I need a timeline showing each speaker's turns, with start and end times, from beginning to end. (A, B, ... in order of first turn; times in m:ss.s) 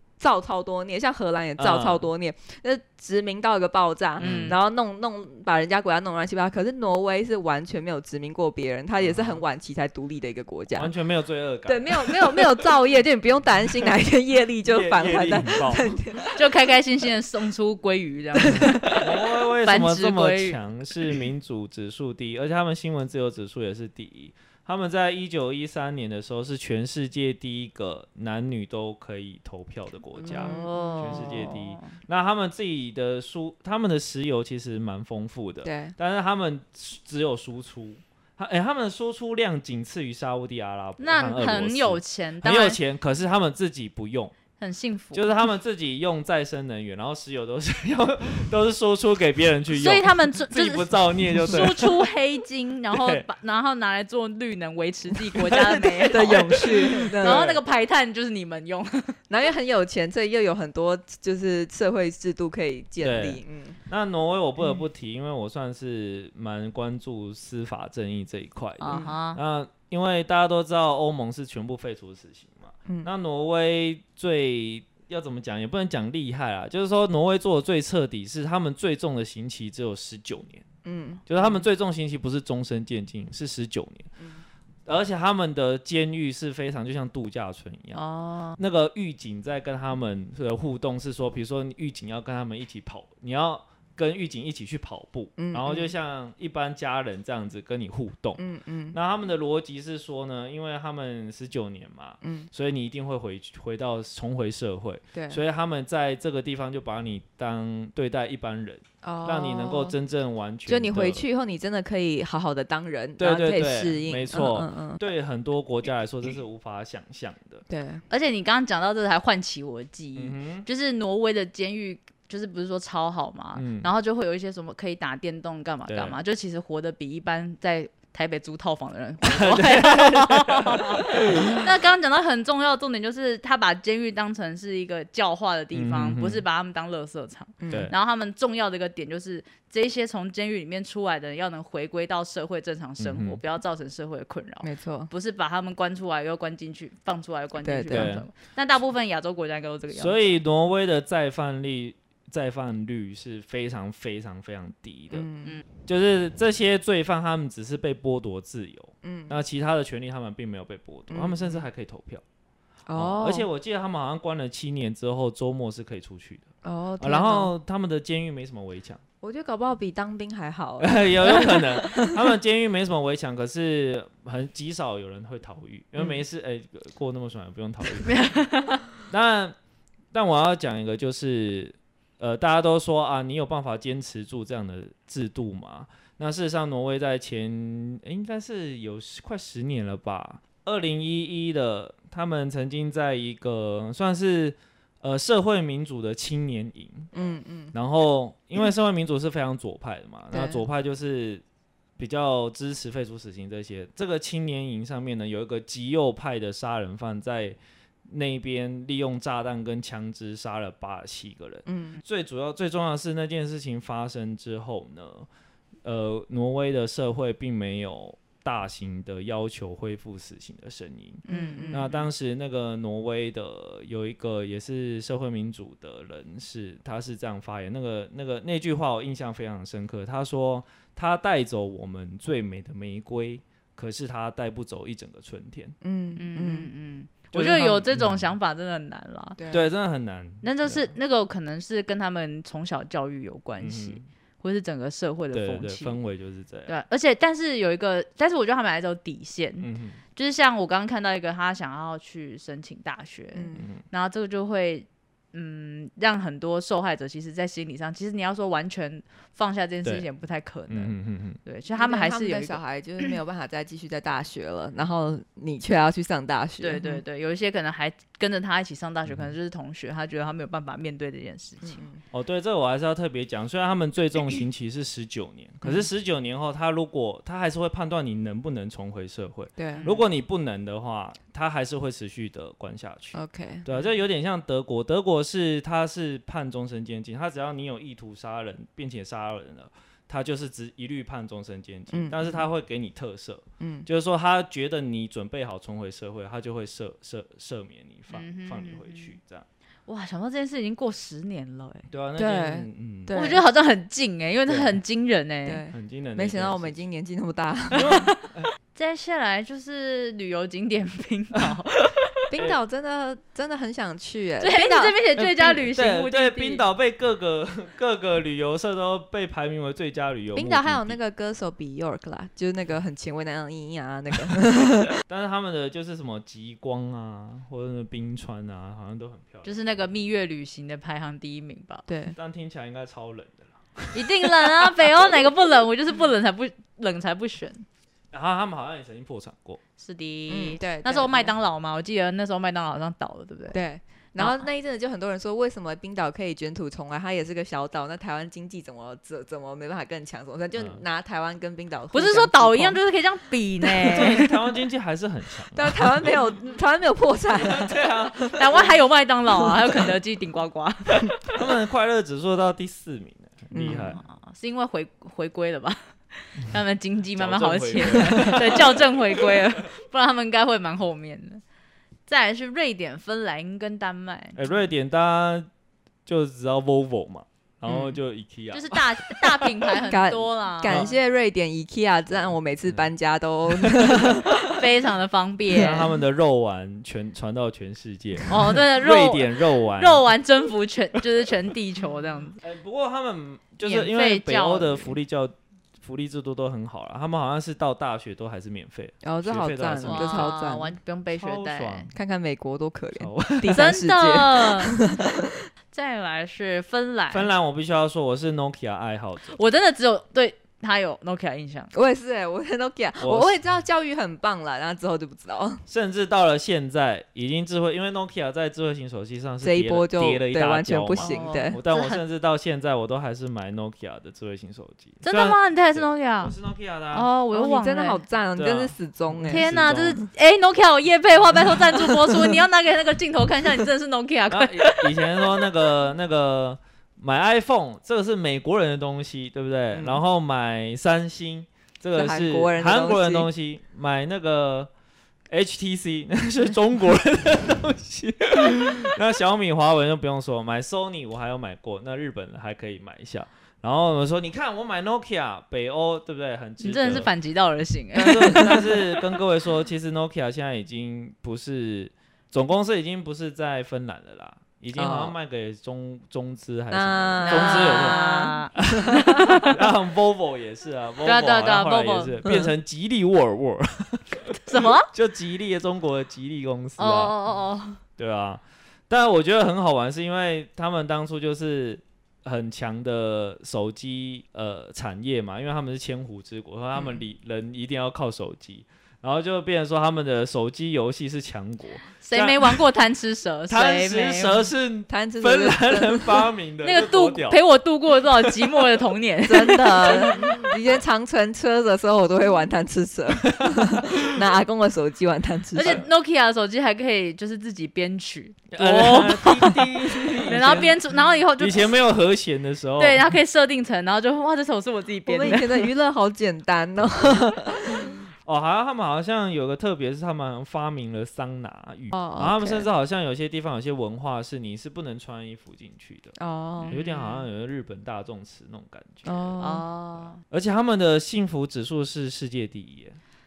0:00.2-0:10.9 A
0:01.6-0:02.0 B
0:04.2-0:04.6 C
0:04.2-0:04.6 B
0:09.0-0:09.4 B
0:10.7-0:12.4 B
0:11.6-0:16.3 A
0:14.6-0:15.9 B
0:16.3-0:19.0 C
0:18.3-0:19.0 A
0:18.8-0:44.3 B
0:19.6-0:20.6 C
0:30.2-0:31.4 A
0:30.3-0:31.9 C
0:35.6-0:36.0 A
0:41.0-0:42.8 C
0:44.6-0:45.3 C
0:45.1-0:52.1 B
0:49.8-0:59.2 C
0:52.9-0:53.2 B
0:55.5-0:57.6 B
0:56.0-0:57.5 A
0:59.3-1:03.8 A
1:03.0-1:20.6 B
1:08.8-1:09.4 C
1:20.8-1:21.2 A
1:21.3-1:24.1 B
1:24.9-1:28.0 B
1:28.0-1:28.6 C
1:28.6-1:51.2 B
1:35.4-1:35.9 A
1:38.4-1:39.0 A
1:42.2-1:42.5 A
1:45.1-1:45.4 A
1:49.0-1:50.0 A
1:50.6-1:55.0 A
1:53.2-1:57.6 B
1:57.7-1:58.0 A
1:58.1-2:30.2 C
2:00.2-2:00.7 B
2:03.6-2:03.9 B
2:05.9-2:06.2 B
2:09.2-2:11.6 B
2:15.7-2:16.4 B
2:17.6-2:17.9 A
2:23.0-2:23.4 B
2:24.6-2:25.1 A
2:27.6-2:28.2 A
2:27.9-2:28.3 B
2:29.9-2:35.3 B
2:35.1-2:35.6 A
2:35.8-2:42.2 B
2:39.0-2:39.4 A
2:41.1-2:41.6 A
2:42.9-2:43.5 A
2:42.9-2:46.5 B
2:46.6-2:47.5 A
2:47.0-2:49.0 B
2:49.2-2:52.2 A
2:50.8-2:58.4 B
2:58.0-2:58.8 C
2:59.1-2:59.6 B
3:00.1-3:17.1 B
3:17.1-3:17.7 A
3:17.7-3:21.4 B
3:20.3-3:20.6 A
3:22.0-3:27.6 B
3:28.1-3:35.3 B
3:31.6-3:32.0 A
3:35.8-3:55.7 B
3:41.3-3:42.0 C
3:41.3-3:42.0 A
3:55.8-3:56.7 A
3:56.2-3:59.4 C
3:57.3-3:58.3 B
3:59.4-3:59.6 A
3:59.5-4:00.9 B
4:00.4-4:06.0 C
4:03.6-4:04.0 B
4:05.3-4:06.7 B
4:06.7-4:22.6 C
4:09.6-4:10.0 B
4:13.3-4:13.7 A
4:13.6-4:13.8 B
4:20.7-4:21.4 B
4:21.7-4:27.0 A
4:26.6-4:31.8 C
4:31.6-4:32.0 A
4:32.1-4:59.4 B
4:39.6-4:39.9 A
4:39.8-4:40.0 C
4:43.1-4:43.7 A
4:51.9-4:52.4 A
4:53.6-4:53.9 A
4:58.1-4:59.1 C
4:59.9-5:01.9 C
5:01.9-5:03.2 B
5:02.2-5:03.4 A
5:03.1-5:05.6 C
5:04.5-5:04.8 B
5:05.4-5:08.0 A
5:05.7-5:06.8 B
5:07.7-5:08.5 B
5:07.8-5:08.2 C
5:08.7-5:12.1 C
5:12.3-5:15.0 A
5:14.4-5:16.6 C
5:15.2-5:21.0 B
5:20.3-5:24.9 A
5:25.1-5:29.6 B
5:29.4-5:31.8 C
5:31.9-5:32.2 A
5:32.2-5:34.9 B
5:33.9-5:37.6 C
5:38.1-5:39.6 B
5:39.8-5:43.6 C
5:40.3-5:41.3 A
5:43.5-5:52.8 A
5:44.2-5:44.4 C
5:50.6-5:50.8 B
5:51.9-5:54.3 C
5:53.9-5:56.2 B
5:55.5-5:58.4 A
5:57.3-5:58.7 B
5:58.3-6:01.1 C
6:01.2-6:04.0 B
6:03.5-6:04.0 A
6:03.7-6:11.4 C
6:07.2-6:09.5 B
6:12.1-6:14.4 C
6:14.4-6:15.5 B
6:16.0-6:19.5 B
6:17.7-6:18.0 A
6:18.5-6:20.9 C
6:19.9-6:24.4 A
6:23.6-6:24.1 B
6:24.4-6:25.9 C
6:25.5-6:30.0 B
6:28.3-6:32.4 C
6:32.4-6:40.4 B
6:33.6-6:35.0 C
6:39.0-6:40.7 A
6:39.8-6:41.9 C
6:41.1-6:41.9 B
6:41.9-6:45.5 A
6:43.0-6:43.6 B
6:43.5-6:44.8 C
6:45.7-6:47.3 C
6:47.1-6:49.4 B
6:49.3-6:51.7 C
6:51.7-6:55.6 A
6:53.0-6:53.4 B
6:55.7-7:07.1 B
6:59.4-7:01.6 A
7:01.0-7:02.0 C
7:05.0-7:06.3 C
7:06.9-7:08.0 C
7:07.3-7:09.5 A
7:08.4-7:10.0 B
7:09.3-7:15.4 C
7:14.3-7:24.7 B
7:19.7-7:20.0 A
7:21.9-7:23.3 A
7:25.3-7:37.1 B
7:36.6-7:38.6 C
7:38.0-7:48.0 B
7:38.3-7:38.6 A
7:44.7-7:45.1 A
7:46.7-7:49.3 A
7:47.2-7:49.6 C
7:48.6-7:57.1 B
7:51.0-7:52.1 C
7:54.4-7:54.9 C
7:56.8-7:57.8 C
7:58.0-8:12.6 B
8:12.0-8:14.5 C
8:13.5-8:17.4 B
8:14.9-8:16.3 A
8:16.6-8:20.4 C
8:19.2-8:25.8 A
8:23.3-8:24.2 B
8:25.5-8:31.7 C
8:28.5-8:30.8 B
8:31.4-8:33.1 B
8:32.8-8:35.7 C
8:35.0-8:38.0 A
8:36.8-8:46.1 B
8:41.9-8:42.7 A
8:46.2-8:46.7 A
8:46.6-8:47.2 C
8:46.7-8:49.4 B
8:49.0-8:49.6 A
8:49.4-8:50.2 C
8:50.1-8:53.0 B